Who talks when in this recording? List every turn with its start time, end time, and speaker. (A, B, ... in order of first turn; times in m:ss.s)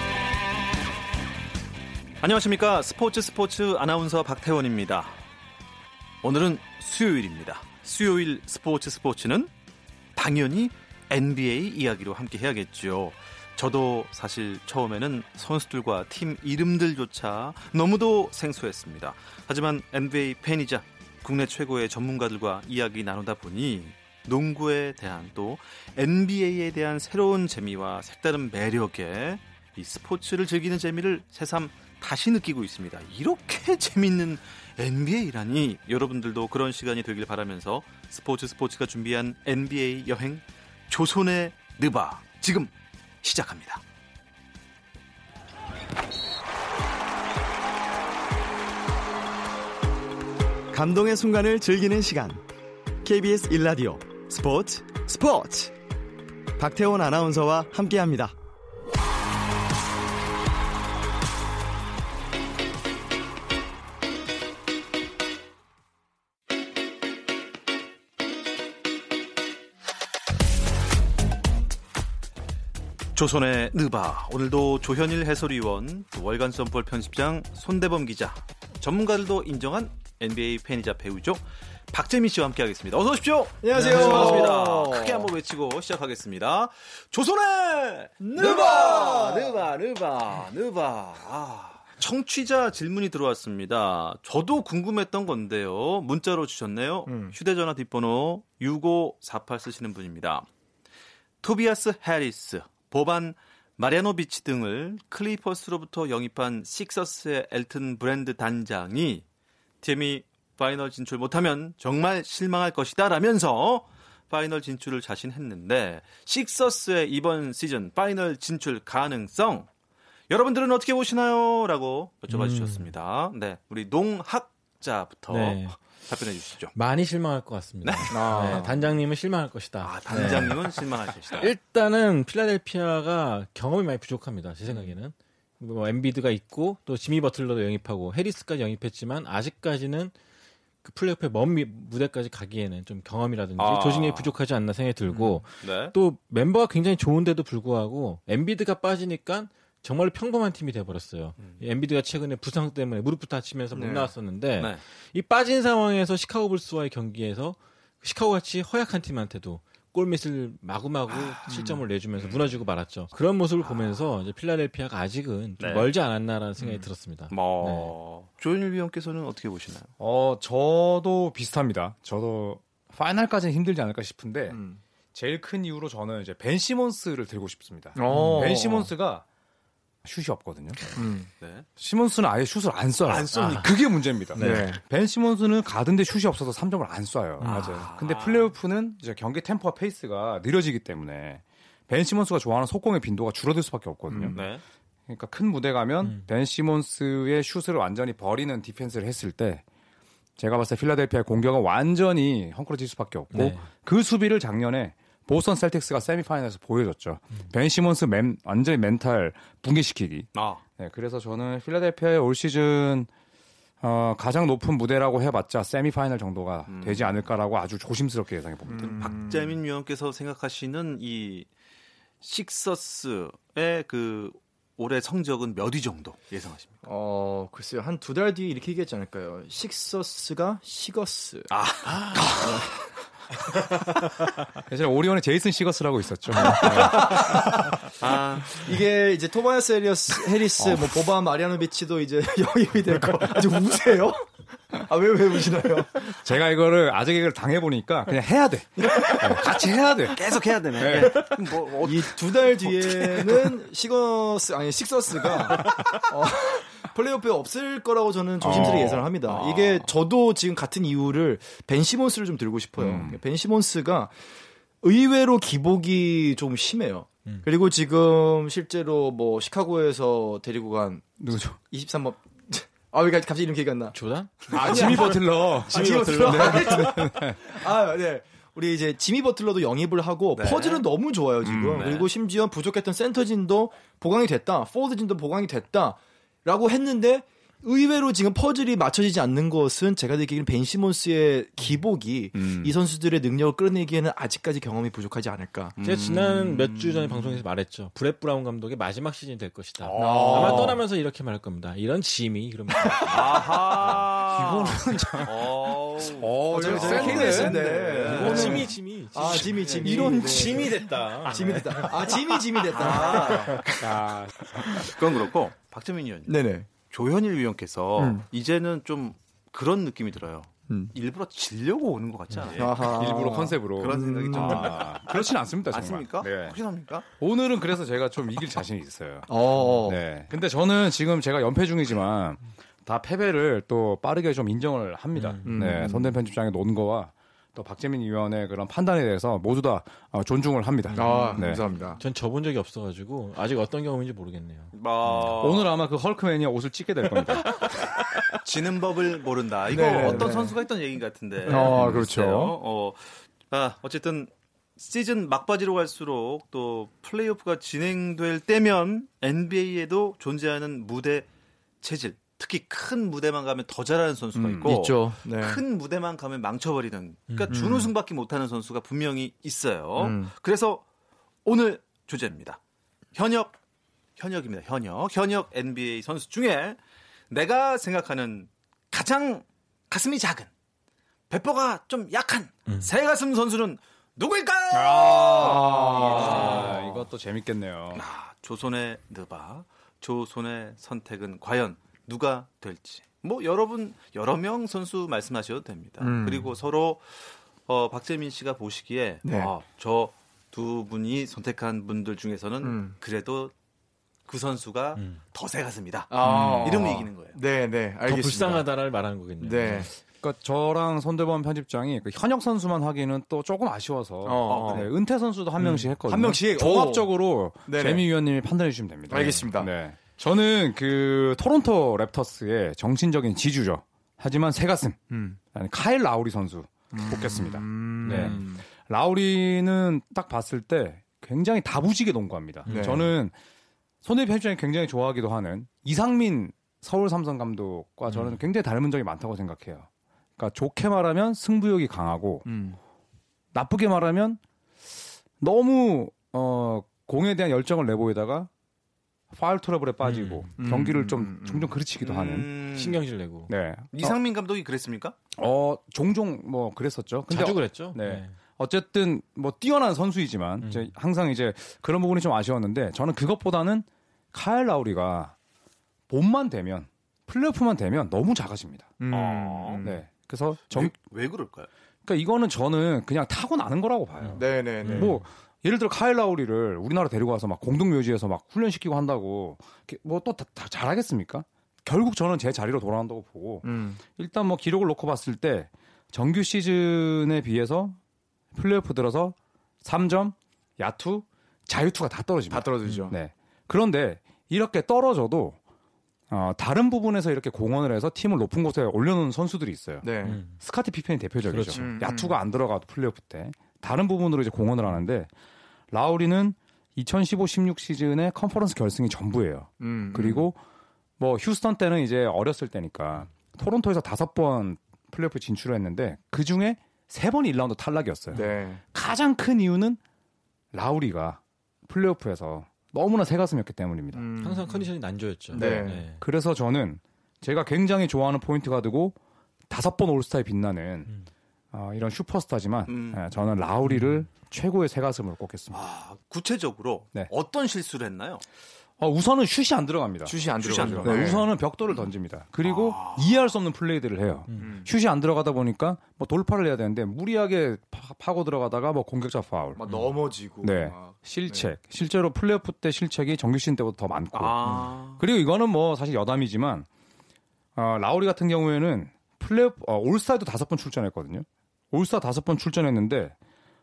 0:02.2-0:05.2 A
0:06.2-0:09.5 A
0:10.2-0:42.7 A
0:43.2-0:43.8 A
0:50.7-0:52.4 B
0:53.0-0:55.7 B
0:56.6-0:58.3 B
1:13.2-1:40.5 A
1:23.6-1:25.3 C
1:23.7-1:24.6 D
1:28.2-1:29.6 C
1:37.1-1:37.4 C
1:41.4-1:49.2 A
1:49.8-1:59.7 A
2:00.3-2:06.7 A
2:02.3-2:02.9 D
2:05.3-2:05.8 D
2:06.7-2:20.1 D
2:07.8-2:08.6 A
2:08.1-2:08.8 C
2:09.8-2:11.5 A
2:10.1-2:10.5 C
2:20.8-2:47.9 D
2:23.6-2:24.3 A
2:25.1-2:25.9 A
2:33.7-2:34.1 C
2:41.5-2:41.8 C
2:45.6-2:45.9 A
2:47.3-2:49.9 A
2:50.0-2:54.6 E
2:54.5-2:54.8 C
2:55.1-2:59.2 E
2:58.0-2:58.9 C
2:58.1-2:58.5 D
3:00.0-3:00.8 E
3:01.0-3:01.3 C
3:01.4-3:01.7 A
3:01.8-3:14.4 E
3:03.1-3:03.8 A
3:03.3-3:03.7 D
3:04.3-3:04.7 D
3:04.4-3:04.8 C
3:07.4-3:07.9 D
3:07.5-3:07.9 C
3:07.7-3:08.5 A
3:14.1-3:14.4 C
3:14.3-3:14.6 A
3:15.1-3:19.6 E
3:20.4-3:33.1 E
3:23.3-3:23.7 D
3:30.4-3:30.6 A
3:33.8-3:39.2 E
3:36.7-3:37.2 A
3:38.7-3:39.5 C
3:38.7-3:41.5 A
3:42.2-3:46.8 A
3:46.8-3:51.5 C
3:51.5-3:52.7 A
3:52.3-3:52.7 C
3:54.7-3:57.7 E
3:56.4-3:57.6 C
3:58.0-3:58.7 A
3:58.5-4:06.1 C
4:00.6-4:01.0 E
4:06.0-4:10.2 E
4:08.8-4:09.5 C
4:10.1-4:13.5 A
4:10.8-4:11.3 E
4:11.8-4:24.2 C
4:18.4-4:19.0 E
4:18.4-4:19.9 A
4:22.8-4:23.2 E
4:24.8-4:31.2 C
4:31.2-4:31.6 E
4:31.7-4:34.0 C
4:33.9-4:37.0 D
4:34.5-4:55.8 C
4:34.5-4:37.4 E
4:40.4-4:40.9 A
4:41.4-4:41.9 E
4:41.7-4:42.1 A
4:52.4-4:52.7 E
4:55.8-4:57.4 A
4:55.8-5:03.4 D
4:59.9-5:00.5 A
4:59.9-5:00.8 E
5:00.0-5:00.8 C
5:03.1-5:08.7 A
5:03.9-5:05.5 E
5:06.0-5:08.7 E
5:06.5-5:13.8 C
5:07.0-5:07.5 D
5:08.1-5:12.2 D
5:09.3-5:10.0 A
5:09.7-5:10.8 E
5:12.7-5:13.7 A
5:12.9-5:13.6 D
5:13.7-5:15.0 E
5:14.8-5:27.1 A
5:16.3-5:16.7 C
5:18.0-5:18.2 C
5:22.6-5:26.6 E
5:22.6-5:24.7 C
5:27.2-5:29.3 E
5:29.3-5:30.0 C
5:29.8-5:41.6 E
5:35.2-5:35.8 D
5:35.5-5:36.2 C
5:40.9-5:45.5 D
5:40.9-5:42.0 C
5:44.7-5:45.7 A
5:45.4-5:47.7 E
5:48.4-6:01.3 A
5:49.7-5:50.6 C
5:51.4-5:52.6 C
5:51.8-5:52.0 E
6:01.8-6:10.8 A
6:04.4-6:05.6 C
6:07.5-6:07.9 C
6:10.0-6:10.3 C
6:11.4-6:12.6 A
6:13.1-6:13.6 A
6:14.2-6:16.8 A
6:17.3-6:20.5 A
6:21.3-6:27.1 A
6:24.7-6:28.0 E
6:25.4-6:26.7 C
6:27.9-6:43.5 A
6:36.0-6:36.5 C
6:39.2-6:39.5 C
6:42.6-6:42.9 C
6:44.3-6:47.4 A
6:46.1-6:48.6 C
6:46.2-6:46.8 D
6:48.1-6:49.9 D
6:49.4-6:49.9 C
6:50.2-7:13.3 E
6:54.2-6:54.9 C
6:54.5-6:54.9 A
6:55.6-6:57.1 C
6:57.7-6:58.1 C
6:59.1-6:59.7 C
7:05.1-7:05.4 C
7:06.9-7:08.6 C
7:08.0-7:08.5 D
7:12.6-7:13.0 D
7:12.7-7:13.1 C
7:14.0-7:22.5 E
7:18.1-7:18.4 D
7:22.4-7:22.8 C
7:23.5-7:24.4 E
7:25.4-7:28.5 E
7:29.3-7:32.5 E
7:30.0-7:30.6 D
7:30.6-7:31.7 C
7:32.0-7:33.0 A
7:32.7-7:33.5 D
7:33.5-7:34.2 E
7:33.9-7:35.2 A
7:35.4-7:45.4 E
7:37.3-7:38.4 D
7:40.6-7:40.9 D
7:46.1-7:48.9 E
7:49.0-7:50.0 C
7:49.1-7:49.8 A
7:49.8-7:51.0 E
7:50.7-7:51.7 A
7:52.0-8:08.0 E
7:54.2-7:55.2 D
7:54.3-7:55.2 C
8:03.6-8:04.0 C
8:08.5-8:15.6 E
8:12.5-8:13.2 C
8:12.8-8:13.2 D
8:16.3-8:25.3 E
8:20.0-8:20.4 C
8:20.2-8:20.6 D
8:21.4-8:22.0 D
8:21.8-8:22.4 C
8:25.9-8:30.6 E
8:29.8-8:30.5 C
8:31.2-8:40.0 E
8:38.3-8:38.8 C
8:40.7-8:44.2 E
8:44.1-8:44.9 C
8:44.4-8:46.2 D
8:45.5-8:46.0 C
8:45.5-8:49.2 E
8:49.7-8:51.1 E
8:51.7-8:55.8 E
8:52.9-8:53.2 A
8:53.8-8:54.2 D
8:55.7-8:58.4 A
8:59.0-9:09.8 E
9:00.2-9:01.4 C
9:00.6-9:02.1 A
9:02.6-9:03.4 A
9:04.6-9:04.9 C
9:09.8-9:11.7 C
9:10.6-9:16.9 E
9:14.4-9:15.2 A
9:17.8-9:23.4 E